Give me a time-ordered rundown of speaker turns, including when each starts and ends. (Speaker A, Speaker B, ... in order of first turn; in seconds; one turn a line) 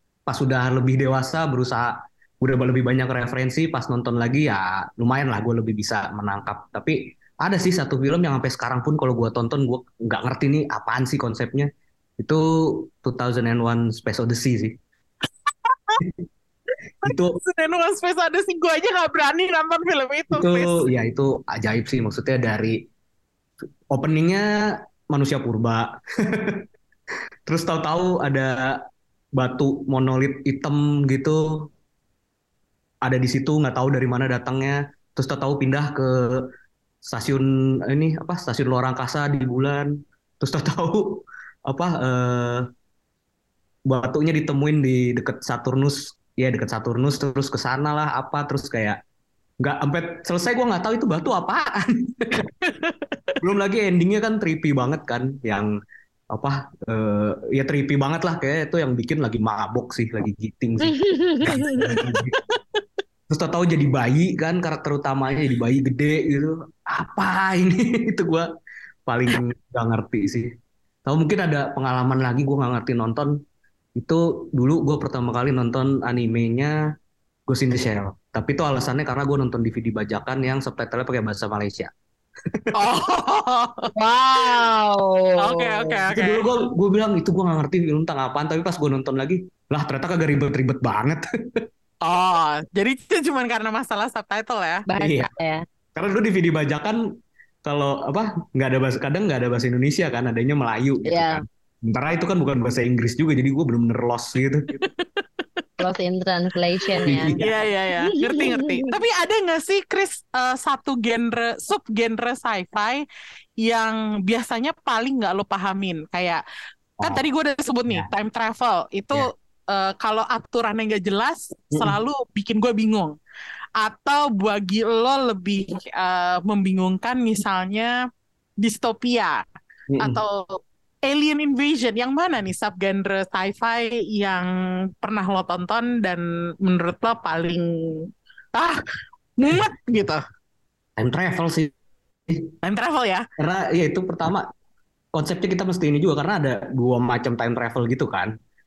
Speaker A: 0.3-14.8
Speaker B: 15.5-16.0
Speaker A: 17.0-17.4
Speaker B: 17.1-20.9
Speaker A: 20.3-22.8
Speaker A: 23.9-26.6
Speaker A: 27.5-28.8
Speaker A: 29.4-31.4
Speaker A: 33.0-36.4
Speaker A: 37.0-42.7
Speaker A: 43.9-49.0
Speaker A: 49.6-52.5
Speaker B: 52.6-53.3
Speaker A: 53.4-55.7
Speaker A: 56.3-62.4
Speaker C: 60.9-61.7
Speaker B: 61.9-62.8
Speaker A: 63.3-68.5
Speaker A: 69.1-70.5
Speaker A: 71.1-73.3
Speaker A: 74.0-76.8
Speaker A: 77.5-81.9
Speaker B: 82.8-84.6
Speaker C: 84.0-86.0
Speaker B: 85.4-86.4
Speaker A: 86.1-91.2
Speaker B: 92.1-94.8
Speaker C: 94.9-95.6
Speaker A: 95.0-95.3
Speaker A: 95.9-97.0
Speaker A: 97.6-104.7
Speaker C: 101.0-101.4
Speaker B: 104.7-105.9
Speaker C: 105.8-107.4
Speaker B: 106.8-113.0
Speaker A: 107.1-107.5
Speaker C: 108.0-108.9
Speaker B: 113.6-116.4
Speaker B: 117.0-123.1
Speaker B: 123.8-127.9
Speaker B: 128.6-129.4
Speaker A: 129.9-130.2
Speaker B: 130.0-134.5
Speaker B: 135.0-138.8
Speaker B: 139.4-140.2
Speaker A: 141.0-141.7
Speaker B: 142.6-143.2
Speaker A: 143.4-144.5
Speaker A: 145.1-148.3